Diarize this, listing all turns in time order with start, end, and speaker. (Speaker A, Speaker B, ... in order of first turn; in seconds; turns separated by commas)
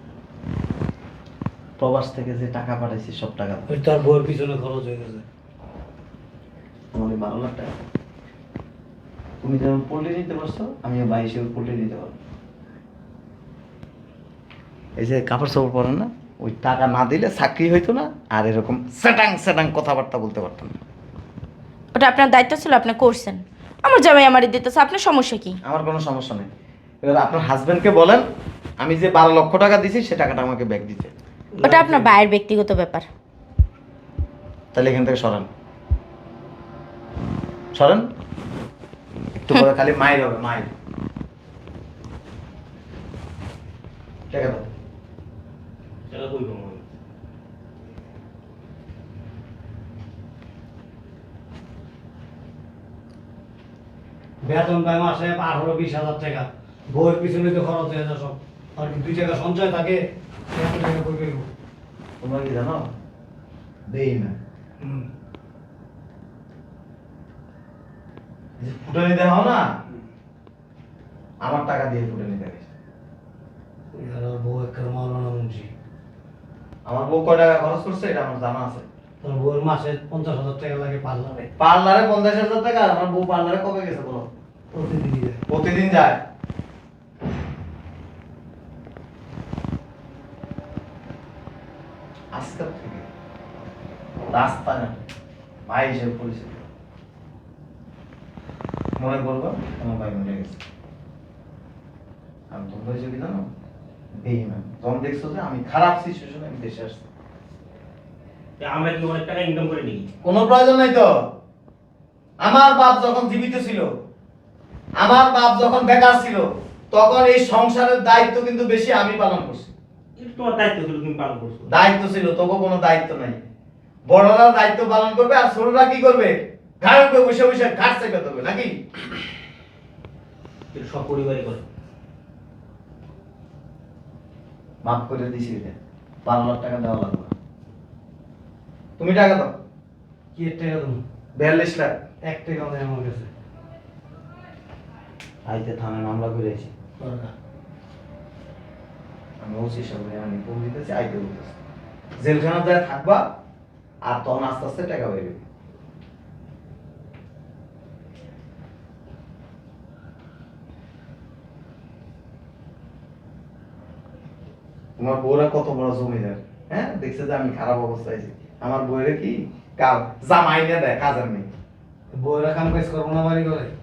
Speaker A: 1.8-3.7, Speaker B: 3.7-5.2, Speaker A: 6.9-7.7, Speaker A: 9.4-12.1, Speaker A: 15.0-20.8, Speaker C: 21.9-25.6, Speaker A: 25.6-26.5, Speaker A: 27.0-28.2, Speaker A: 28.8-31.1, Speaker B: 31.6-32.1, Speaker C: 31.6-33.1, Speaker A: 34.7-35.5, Speaker A: 37.8-38.0, Speaker A: 39.4-40.7, Speaker A: 44.3-44.7, Speaker D: 46.1-46.9, Speaker B: 54.4-61.5, Speaker A: 62.2-62.8, Speaker A: 63.9-64.4, Speaker A: 68.6-69.7, Speaker A: 71.4-72.7, Speaker B: 73.9-75.7, Speaker A: 76.9-78.8, Speaker B: 79.2-81.5, Speaker A: 81.6-84.3, Speaker B: 84.7-85.4, Speaker A: 85.5-86.2, Speaker A: 92.3-93.1, Speaker A: 94.3-95.0, Speaker A: 95.7-96.6, Speaker A: 99.0-100.6, Speaker A: 102.5-103.5, Speaker A: 104.2-107.0, Speaker D: 108.6-110.1, Speaker A: 110.2-111.1, Speaker A: 112.4-113.9, Speaker A: 115.0-119.7, Speaker D: 120.2-121.7, Speaker A: 121.7-123.4, Speaker A: 124.1-128.7, Speaker D: 130.7-131.6, Speaker A: 134.8-137.3, Speaker A: 139.0-139.5, Speaker B: 140.3-141.0, Speaker A: 141.4-141.9, Speaker B: 142.2-143.3, Speaker A: 145.5-146.7, Speaker B: 147.0-147.3, Speaker A: 149.4-151.6, Speaker A: 152.2-153.2, Speaker A: 154.0-155.4, Speaker A: 165.0-171.5, Speaker B: 172.1-173.7